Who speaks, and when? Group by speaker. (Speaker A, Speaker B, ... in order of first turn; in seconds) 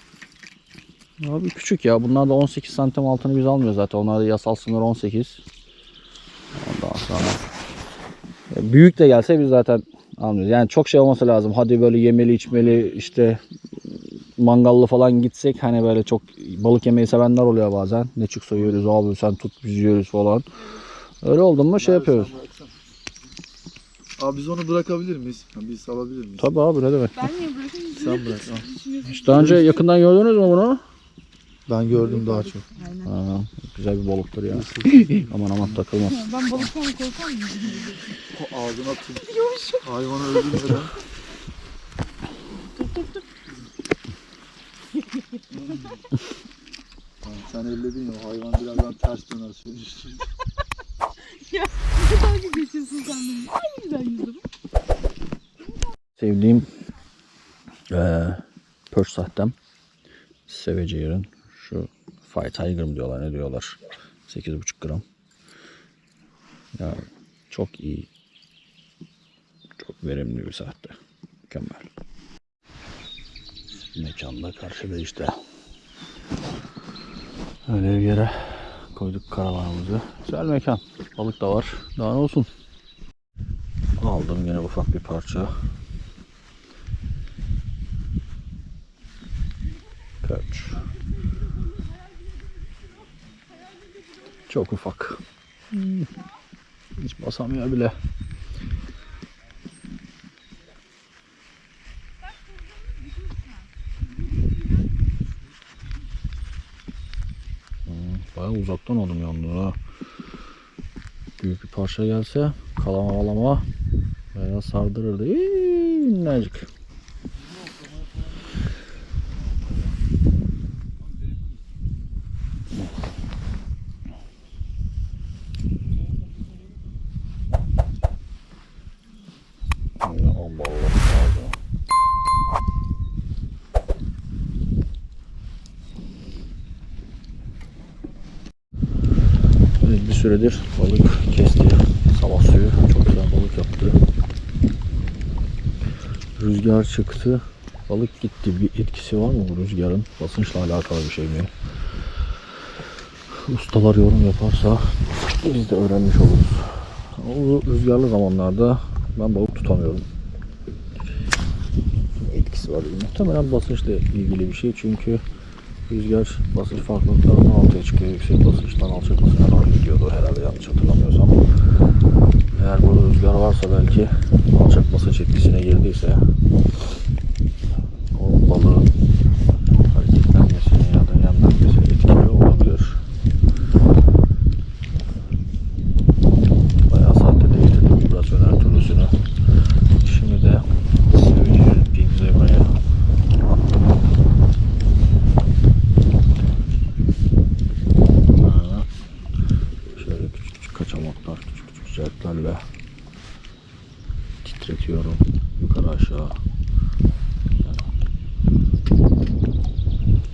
Speaker A: 1.2-5.4, 6.5-7.4, 8.5-13.4, 13.9-20.5, 21.2-22.4, 26.4-27.5, 29.1-30.8, 33.0-36.6, 56.2-56.7, 57.9-59.6, 60.5-65.0, 66.8-68.1, 69.8-71.0, 71.5-71.9, 73.9-75.4, 77.7-82.5, 84.0-85.5, 90.2-90.9, 94.3-96.1, 97.0-97.9, 107.9-109.8, 111.4-113.7, 114.3-116.7, 130.0-131.6, 139.8-144.0, 146.4-151.5, 153.3-160.1, 162.2-165.2, 165.9-171.4, 172.6-176.2, 178.1-178.9, 179.9-183.0, 186.8-189.1, 190.0-192.7, 198.4-198.9, 199.9-202.6, 204.4-206.4, 207.6-207.9
Speaker B: 21.8-22.7, 24.2-26.5, 27.9-28.8, 31.7-32.7, 34.7-35.2, 38.3-41.0, 45.5-45.9, 47.2-50.2
Speaker C: 27.3-28.0, 28.8-29.1, 36.4-38.0, 51.5-54.4